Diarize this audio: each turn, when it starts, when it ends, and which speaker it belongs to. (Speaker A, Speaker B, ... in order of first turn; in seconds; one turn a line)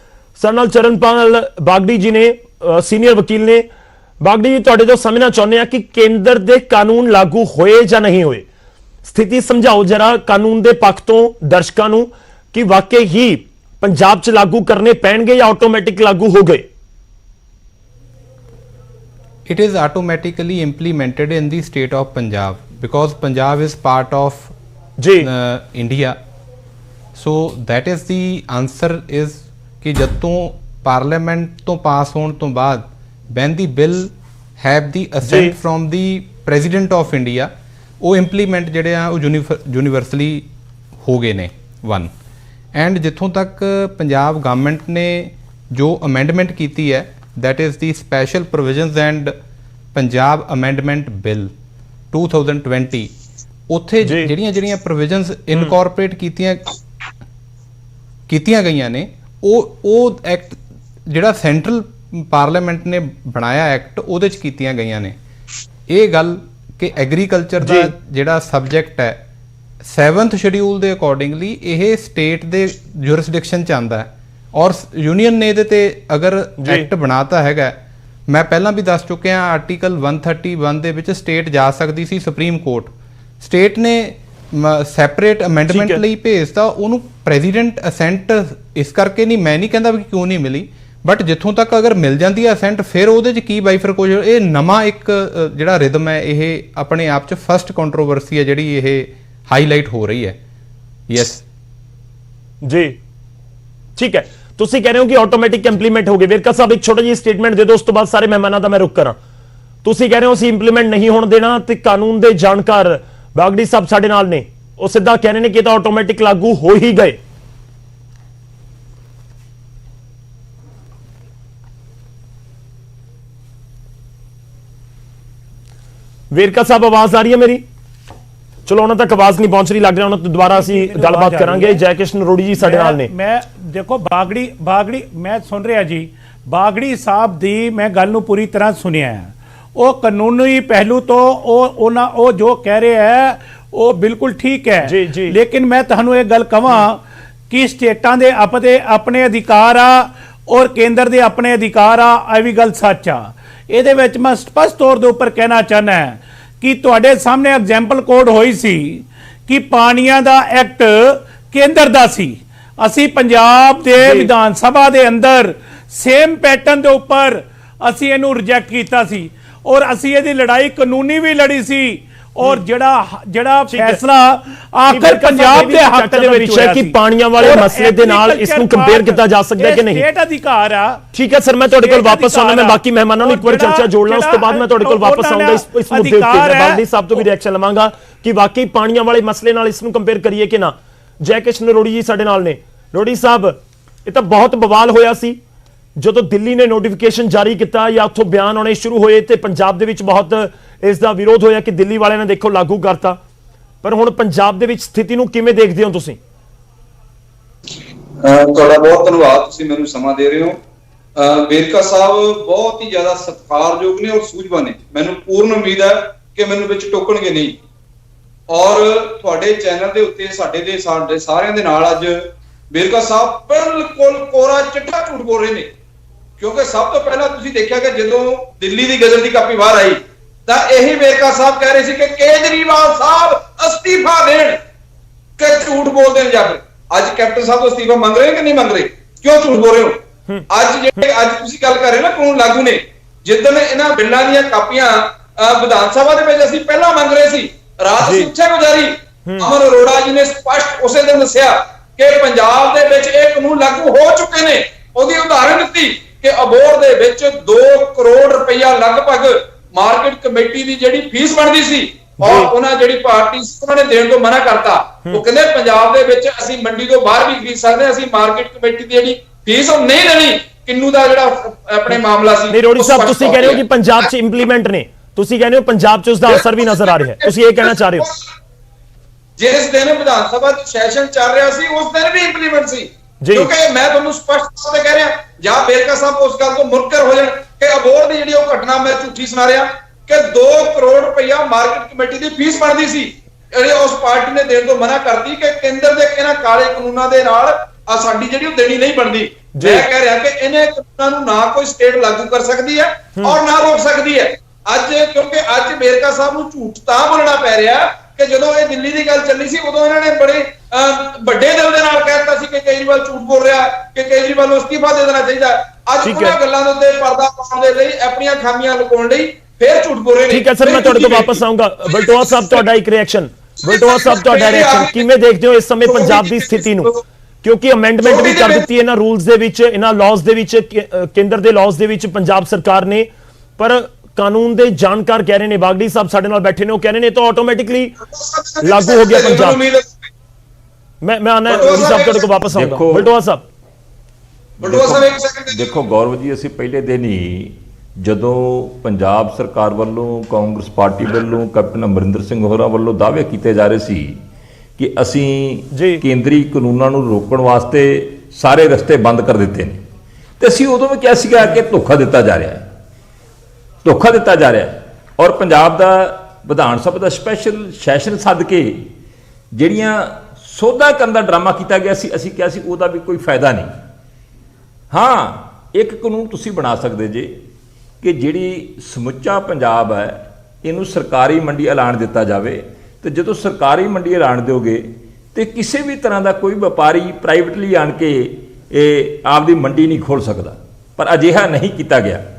Speaker A: 0.4-3.7
Speaker A: 4.2-8.4
Speaker A: 9.0-16.7
Speaker B: 19.4-24.5
Speaker A: 25.0-25.3
Speaker B: 25.2-26.2
Speaker B: 27.1-40.5
Speaker A: 35.2-35.5
Speaker B: 41.0-42.1
Speaker B: 42.7-49.3
Speaker B: 49.9-51.5
Speaker B: 52.1-53.1
Speaker B: 53.7-56.6
Speaker A: 54.0-54.3
Speaker B: 58.3-65.2
Speaker B: 65.9-69.2
Speaker A: 67.6-67.9
Speaker B: 69.8-100.4
Speaker A: 76.6-76.9
Speaker A: 85.7-86.0
Speaker B: 101.1-101.4
Speaker A: 102.6-103.0
Speaker A: 104.0-109.2
Speaker A: 109.8-117.2
Speaker A: 126.3-127.6
Speaker A: 128.7-133.1
Speaker C: 130.5-131.8
Speaker C: 132.6-181.0
Speaker A: 144.8-145.3
Speaker A: 164.0-164.3
Speaker A: 173.7-174.0
Speaker A: 174.9-180.0
Speaker A: 181.1-195.4
Speaker C: 181.7-187.2
Speaker A: 196.0-203.2
Speaker A: 203.8-206.2
Speaker D: 208.2-210.6
Speaker D: 211.2-217.6
Speaker D: 218.5-225.7
Speaker D: 226.4-234.6
Speaker D: 235.4-240.0
Speaker A: 240.3-241.1
Speaker D: 240.5-273.6
Speaker A: 248.0-248.3
Speaker A: 249.2-249.5
Speaker A: 262.2-262.5
Speaker A: 272.5-278.1
Speaker D: 276.3-278.3
Speaker D: 279.4-322.6
Speaker A: 283.2-283.5
Speaker A: 299.6-299.9
Speaker A: 316.0-316.4
Speaker A: 320.3-326.9
Speaker D: 323.6-325.1
Speaker D: 325.8-327.0
Speaker A: 327.4-337.9
Speaker D: 328.0-328.6
Speaker D: 338.1-340.1
Speaker A: 338.6-339.6
Speaker A: 341.0-343.4
Speaker D: 341.5-342.4
Speaker E: 342.5-343.1
Speaker D: 344.6-345.8
Speaker E: 344.6-354.2
Speaker E: 354.8-359.8
Speaker A: 355.7-356.0
Speaker E: 360.4-362.7
Speaker E: 363.8-368.9
Speaker E: 369.5-373.7
Speaker E: 374.9-377.3
Speaker E: 378.0-392.2